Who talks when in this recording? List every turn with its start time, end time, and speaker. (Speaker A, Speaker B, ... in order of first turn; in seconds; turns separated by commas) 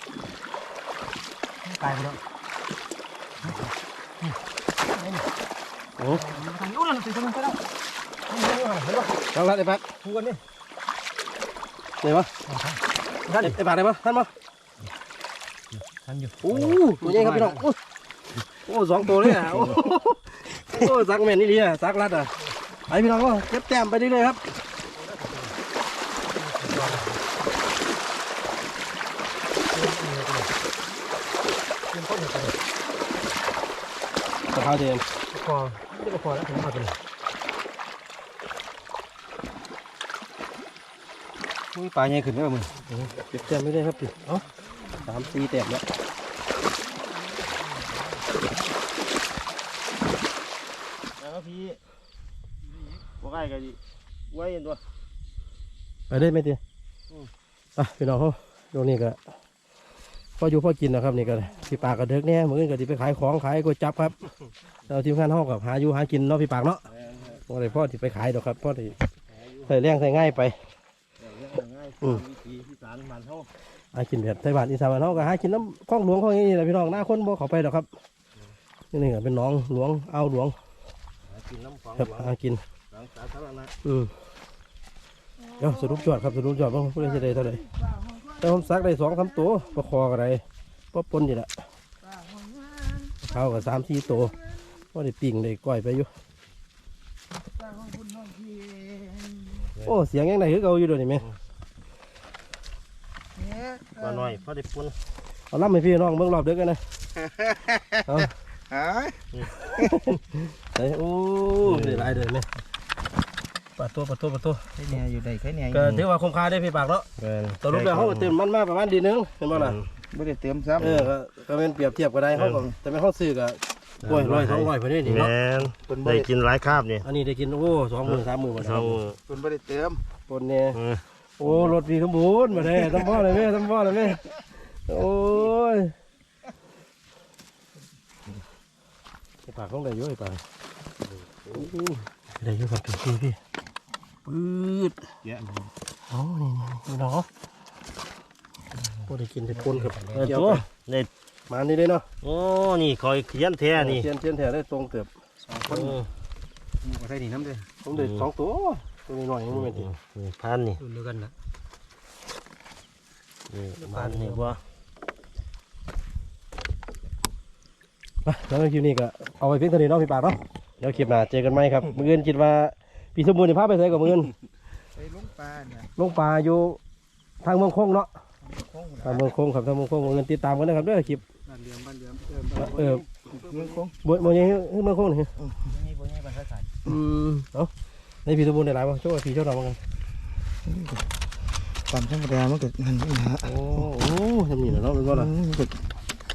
Speaker A: 1.6-2.2, Speaker B: 6.0-6.2, Speaker A: 6.1-7.6, Speaker A: 8.3-9.1, Speaker B: 9.3-9.8, Speaker A: 10.0-10.4, Speaker B: 12.0-12.3, Speaker A: 12.5-13.6, Speaker B: 13.4-14.3, Speaker A: 15.8-17.7, Speaker B: 16.4-17.8, Speaker B: 18.6-22.3, Speaker A: 19.3-19.7, Speaker B: 22.9-24.4, Speaker A: 25.0-25.5, Speaker A: 26.4-27.2, Speaker A: 29.7-30.5, Speaker A: 31.9-32.5, Speaker B: 34.5-35.0, Speaker A: 35.3-37.0, Speaker A: 41.7-42.7, Speaker B: 42.9-44.4, Speaker B: 45.0-45.8, Speaker C: 51.2-51.8, Speaker C: 53.2-53.8, Speaker C: 54.3-54.8, Speaker B: 56.1-56.6, Speaker B: 57.8-59.2, Speaker B: 60.4-64.2, Speaker B: 64.9-66.8, Speaker B: 67.5-69.0, Speaker B: 69.6-70.6, Speaker C: 71.2-73.5, Speaker B: 73.9-77.9, Speaker B: 78.9-80.5, Speaker C: 81.3-82.3, Speaker B: 82.0-82.6, Speaker C: 82.9-83.7, Speaker B: 83.8-84.1, Speaker B: 85.6-87.6, Speaker D: 85.6-86.6, Speaker D: 87.1-88.8, Speaker B: 88.4-91.5, Speaker D: 92.0-93.2, Speaker B: 93.2-94.3, Speaker B: 94.9-96.1, Speaker D: 97.6-99.7, Speaker B: 99.8-101.3, Speaker D: 103.4-104.3, Speaker C: 104.0-104.9, Speaker B: 105.5-106.8, Speaker D: 107.2-108.0, Speaker B: 108.1-108.3, Speaker D: 108.7-109.2, Speaker B: 109.8-112.5, Speaker C: 111.6-112.3, Speaker B: 113.8-114.7, Speaker D: 114.8-115.8, Speaker B: 115.7-117.1, Speaker C: 117.2-118.3, Speaker B: 117.6-119.8, Speaker C: 119.5-119.9, Speaker D: 120.1-121.1, Speaker B: 120.8-125.3, Speaker C: 122.3-122.6, Speaker C: 124.0-127.0, Speaker D: 125.9-126.3, Speaker B: 127.0-129.0, Speaker C: 128.0-129.2, Speaker D: 129.3-130.0, Speaker B: 130.3-130.8, Speaker C: 130.7-131.7, Speaker B: 131.4-135.9, Speaker B: 139.4-140.4, Speaker B: 141.5-143.4, Speaker B: 144.2-145.0, Speaker B: 146.1-147.3, Speaker B: 149.1-150.6, Speaker A: 149.5-150.3, Speaker C: 150.2-151.1, Speaker B: 151.5-152.1, Speaker C: 152.2-154.1, Speaker B: 153.7-155.1, Speaker A: 155.4-155.9, Speaker B: 155.7-156.0, Speaker C: 155.7-156.0, Speaker A: 156.8-157.7, Speaker B: 157.8-159.9, Speaker C: 157.9-158.3, Speaker C: 159.5-160.8, Speaker A: 160.8-161.3, Speaker C: 163.5-164.6, Speaker A: 163.8-164.6, Speaker B: 168.2-174.3, Speaker D: 174.9-175.9, Speaker B: 175.9-176.8, Speaker B: 177.4-178.1, Speaker D: 178.7-179.1, Speaker B: 179.0-181.2, Speaker A: 181.4-183.8, Speaker B: 182.6-183.0, Speaker D: 183.4-183.9, Speaker B: 184.0-185.3, Speaker A: 185.6-186.8, Speaker B: 186.8-187.7, Speaker B: 188.2-189.8, Speaker D: 190.7-191.0, Speaker D: 191.9-193.6, Speaker B: 193.4-195.3, Speaker D: 195.1-195.8